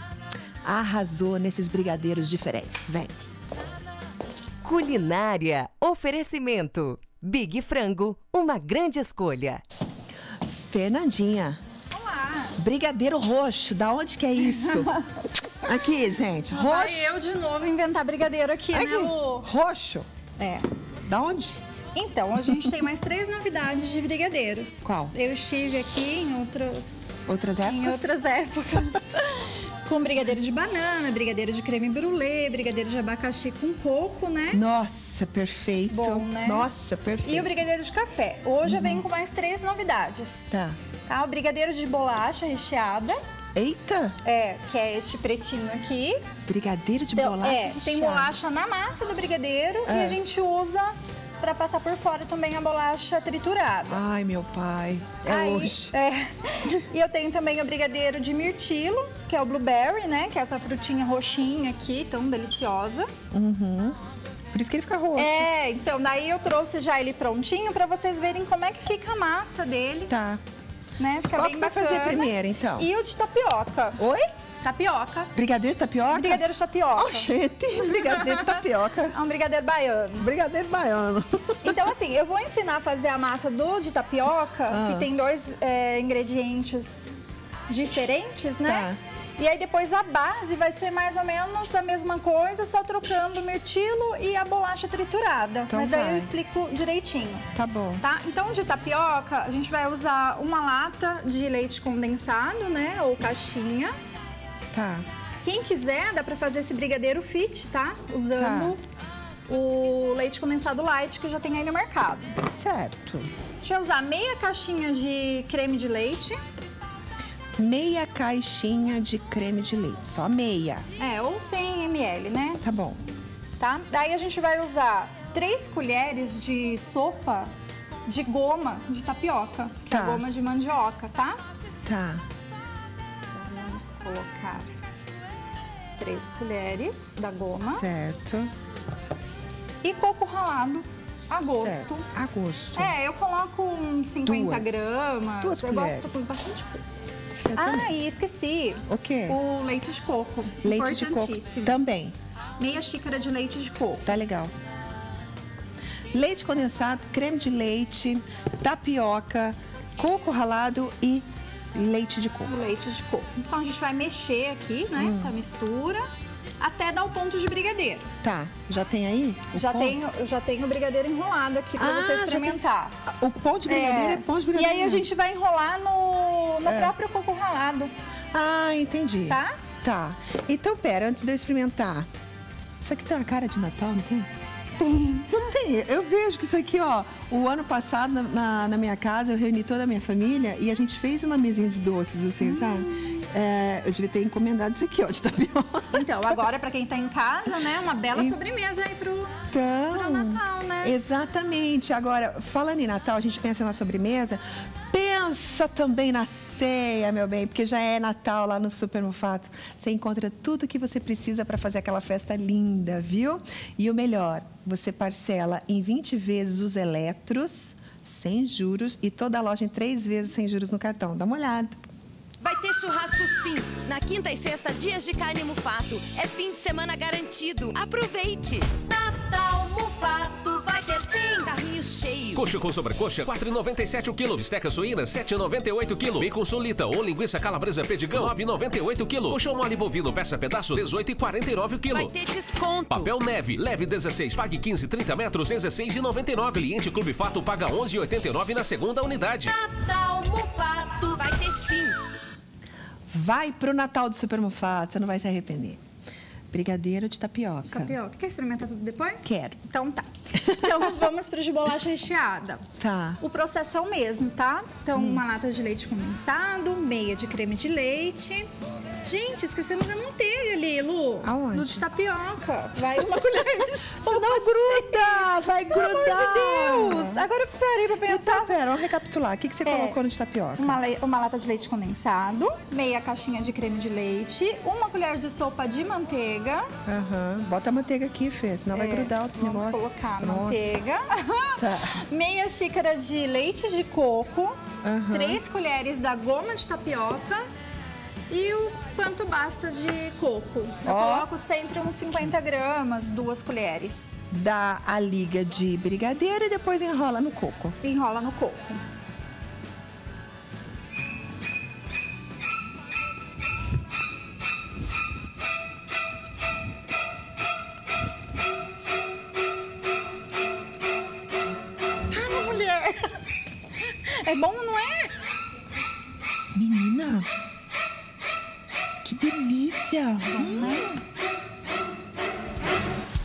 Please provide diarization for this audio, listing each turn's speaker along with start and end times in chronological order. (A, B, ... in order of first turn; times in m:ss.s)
0:00.6-0:03.3 A
0:04.6-0:09.6 B
0:10.4-0:11.6 A
0:11.9-0:12.5 C
0:12.5-0:15.0 A
0:15.6-0:17.1 A
0:16.5-0:19.5 C
0:18.7-0:20.1 A
0:20.4-0:20.7 C
0:21.0-0:21.6 A
0:21.9-0:27.1 C
0:24.8-0:25.1 A
0:27.2-0:28.1 A
0:27.6-0:34.6 C
0:34.5-0:37.5 A
0:35.9-0:36.7 C
0:37.2-0:40.5 C
0:38.6-0:39.0 A
0:40.5-0:40.8 A
0:41.0-0:43.2 C
0:43.5-0:44.2 A
0:44.2-0:46.2 C
0:46.5-0:48.3 A
0:47.2-0:54.0 C
0:49.8-0:50.2 A
0:53.9-0:55.9 A
0:55.3-1:03.1 C
1:03.3-1:04.0 A
1:04.5-1:05.5 A
1:05.2-1:10.1 C
1:10.1-1:10.4 A
1:11.0-1:14.0 C
1:11.3-1:12.9 A
1:14.0-1:14.2 A
1:14.6-1:15.3 C
1:15.3-1:19.2 A
1:16.1-1:17.3 C
1:18.0-1:18.4 C
1:19.1-1:20.3 C
1:20.2-1:21.8 A
1:21.6-1:27.1 C
1:24.7-1:25.1 A
1:27.7-1:37.5 C
1:28.6-1:29.0 A
1:35.7-1:36.3 A
1:37.5-1:38.0 A
1:38.0-1:43.9 C
1:44.7-1:45.0 A
1:45.4-1:48.8 C
1:48.3-1:48.8 A
1:49.5-1:52.4 C
1:52.4-1:53.3 A
1:53.6-1:56.4 C
1:57.6-2:00.8 A
2:01.0-2:02.6 C
2:02.6-2:03.0 A
2:03.6-2:07.5 C
2:08.0-2:11.4 C
2:09.8-2:10.2 A
2:11.8-2:12.2 A
2:13.3-2:14.7 C
2:16.0-2:17.8 C
2:17.6-2:18.5 A
2:19.8-2:22.1 C
2:21.2-2:23.0 A
2:22.8-2:26.8 C
2:24.2-2:26.2 A
2:27.4-2:28.0 A
2:27.6-2:31.8 C
2:28.8-2:29.4 A
2:30.6-2:32.1 A
2:32.6-2:34.1 C
2:34.0-2:34.5 A
2:36.1-2:42.6 A
2:42.5-2:46.1 C
2:45.0-2:45.4 A
2:46.6-2:48.1 C
2:48.2-2:50.0 A
2:49.5-2:53.0 C
2:51.8-2:55.0 A
2:53.7-2:57.9 C
2:56.6-2:56.9 A
2:58.3-3:02.1 A
2:59.3-2:59.6 C
3:02.8-3:04.3 A
3:04.8-3:05.4 C
3:05.3-3:16.4 A
3:12.4-3:13.2 C
3:15.9-3:19.4 C
3:19.5-3:41.7 A
3:19.9-3:20.9 C
3:42.4-3:52.4 D
3:52.3-4:02.2 E
4:01.9-4:03.1 D
4:02.9-4:09.6 E
4:11.0-4:12.0 D
4:13.1-4:15.8 A
4:16.5-4:18.0 A
4:17.7-4:22.6 C
4:19.2-4:19.6 A
4:20.4-4:20.7 A
4:22.8-4:23.2 A
4:23.2-4:28.5 C
4:24.9-4:25.2 A
4:29.0-4:38.6 C
4:31.2-4:31.8 A
4:34.0-4:37.2 A
4:38.0-4:40.8 A
4:39.6-4:40.0 C
4:40.6-4:46.7 C
4:46.8-4:50.7 A
4:48.7-4:54.6 C
4:51.5-4:52.0 A
4:54.8-4:55.4 A
4:55.1-4:57.5 C
4:58.3-5:04.1 C
5:00.8-5:01.3 A
5:04.3-5:07.8 A
5:07.8-5:08.8 C
5:22.1-5:23.2 C
5:23.9-5:25.1 C
5:26.5-5:27.3 A
5:29.0-5:31.0 A
5:30.2-5:31.0 C